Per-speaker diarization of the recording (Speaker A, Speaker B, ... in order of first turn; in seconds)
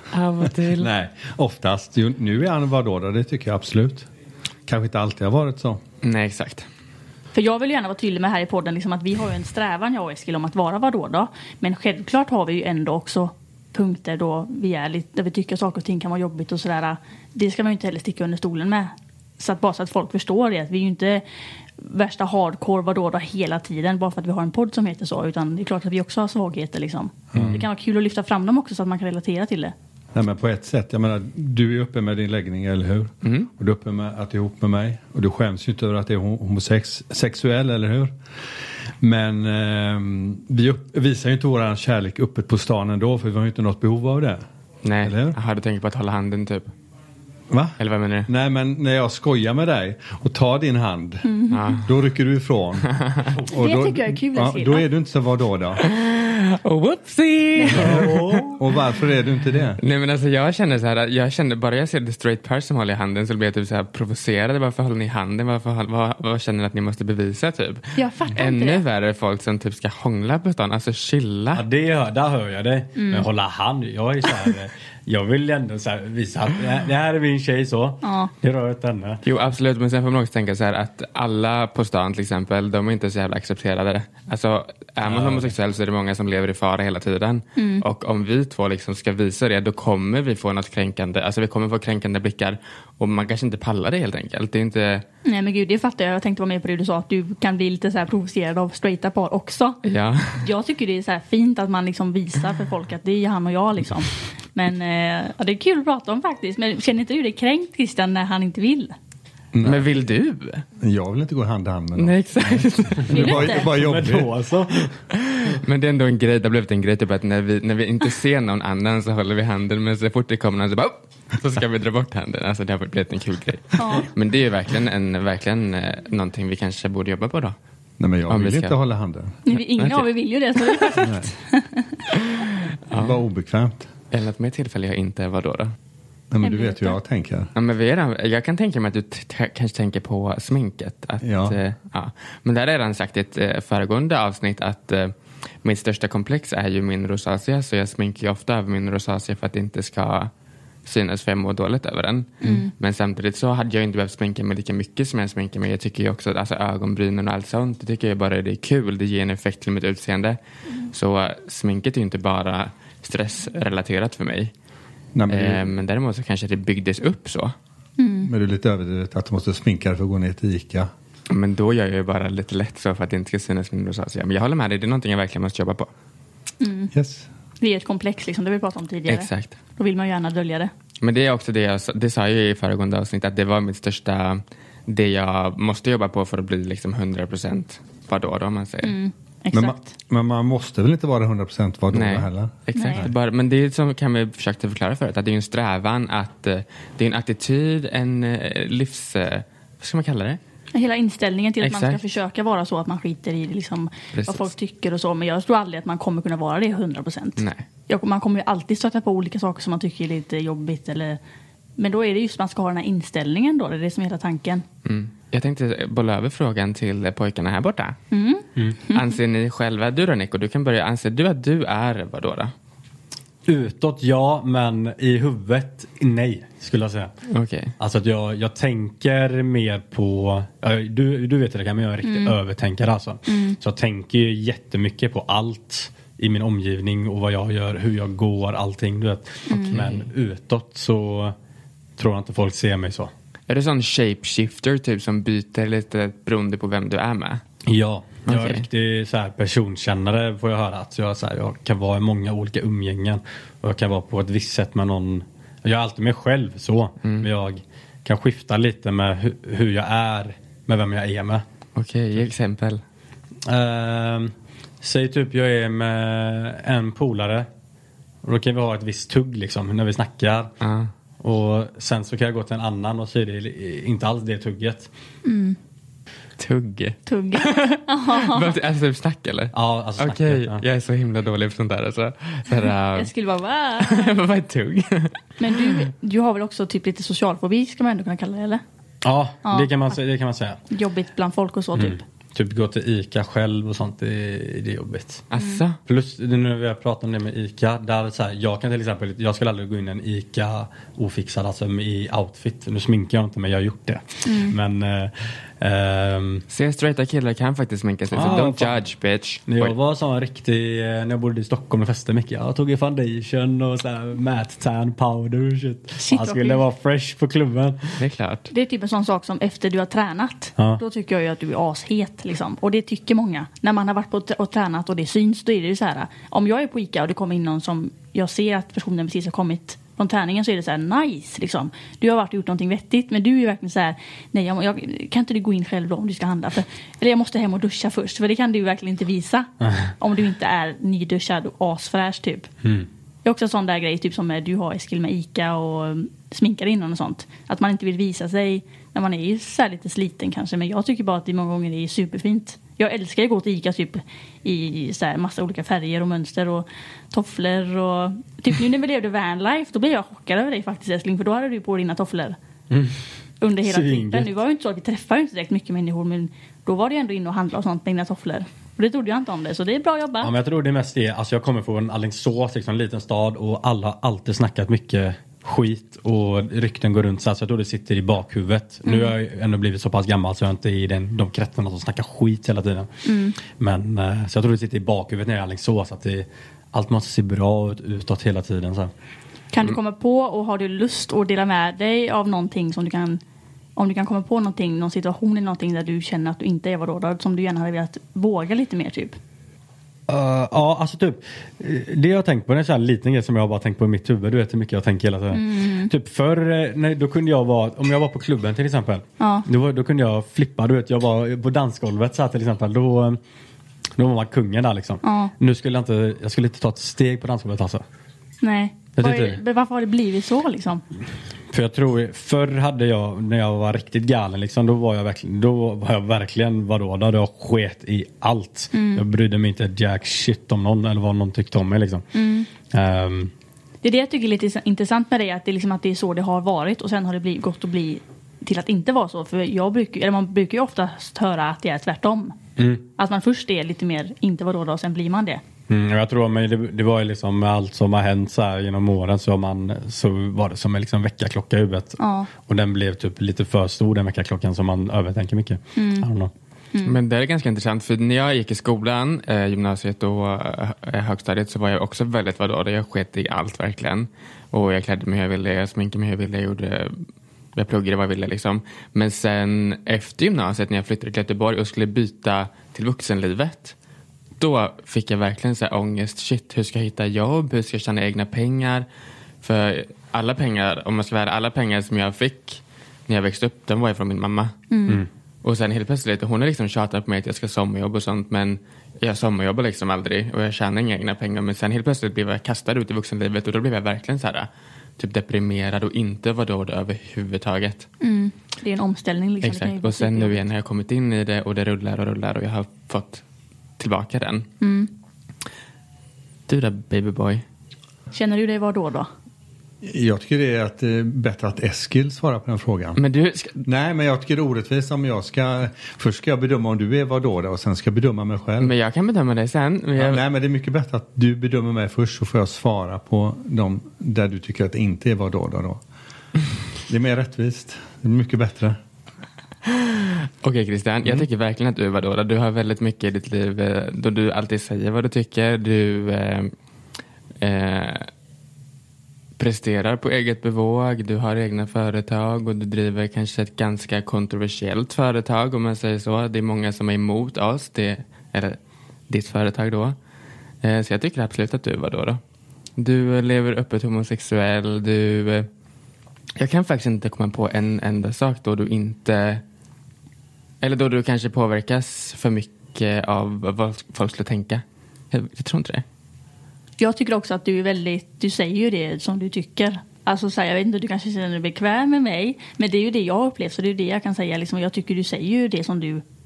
Speaker A: 0.1-0.9, 6.0-6.7, 33.2-33.5, 44.8-46.7, 47.8-48.3, 51.5-51.9, 53.0-53.3, 55.8-58.0, 59.8-71.7, 79.2-95.1, 99.8-100.5, 109.6-110.7, 112.0-113.5, 115.2-127.6, 128.3-128.8, 129.5-130.1, 130.6-130.9, 132.4-133.2, 134.1-135.7, 137.6-150.3, 150.8-160.4, 160.9-164.5, 165.3-167.6, 171.3-175.9, 179.1-179.6, 181.0-189.0, 191.9-200.4, 201.6-202.0, 204.1-204.5, 207.4-207.7, 214.8-218.0, 218.9-222.5, 227.3-227.7, 239.7-240.1, 243.5-247.4, 248.3-248.7, 261.8-262.8, 270.6-270.9, 276.4-283.1, 283.8-285.8, 295.3-295.8, 306.5-309.8, 318.0-318.5, 456.8-467.0, 467.6-473.8, 474.4-478.9, 479.4-484.6, 485.4-497.9, 499.4-503.2, 503.8-504.5, 506.5-507.4, 513.0-513.6, 518.6-520.2, 529.7-536.5, 537.4-538.1, 539.4-550.0, 550.6-552.2, 552.8-555.5, 556.4-559.4, 560.6-565.8
Speaker B: 0.4-4.1, 4.7-5.8, 27.3-27.6, 30.1-38.1, 39.0-44.4, 45.0-45.4, 47.5-55.9, 57.7-59.8, 109.5-109.9, 110.8-114.3, 128.0-129.4, 131.0-131.3, 132.9-133.9, 136.3-137.5, 141.2-141.6, 165.2-165.7, 168.2-170.9, 176.9-177.3, 189.5-193.1, 509.8-513.0, 513.6-518.7, 520.0-525.8, 526.9-528.8
Speaker C: 7.3-21.2, 21.8-29.7, 51.2-51.8, 53.5-54.9, 57.6-58.5, 68.0-68.8, 73.0-73.3, 78.0-78.3, 87.6-87.8, 95.2-99.8, 100.4-108.9, 113.1-113.7, 123.8-124.1, 129.5-131.9, 136.4-137.0, 152.4-152.7, 168.0-168.3, 176.6-176.9, 177.6-180.7, 188.8-189.9, 192.8-193.0, 200.7-211.2, 211.8-214.7, 218.1-219.2, 232.0-232.4, 233.3-233.6, 239.5-239.8, 275.2-275.6, 277.1-278.6, 282.9-284.2, 285.4-288.6, 289.4-290.0, 290.7-292.0, 304.2-304.6, 316.0-316.6, 318.5-342.5, 343.2-362.4, 363.4-370.3, 378.9-379.1, 383.1-383.4, 389.5-393.2, 393.8-399.2, 405.3-405.9, 409.2-409.5, 415.0-415.3, 418.4-420.8, 428.7-429.1, 432.1-432.5, 433.8-442.4, 443.0-445.4, 452.0-452.3, 455.8-456.1, 456.7-457.0, 484.7-485.0, 498.0-500.4, 504.6-504.9, 508.1-509.1, 566.8-576.0
Speaker D: 27.4-27.6, 57.7-58.6, 71.5-79.2, 85.0-85.5, 113.3-115.0, 223.5-227.1, 227.8-241.3, 242.0-243.1, 247.7-261.4, 263.4-267.5, 268.2-270.5, 271.2-274.9, 279.5-280.6, 289.0-290.6, 291.8-295.2, 295.9-306.4, 308.1-308.8, 309.5-318.0, 362.7-363.0, 363.6-364.3, 370.2-382.9, 383.5-388.9, 400.1-413.2, 414.0-417.8, 419.0-419.4, 421.5-432.1, 432.7-433.3, 442.6-442.8, 445.7-456.3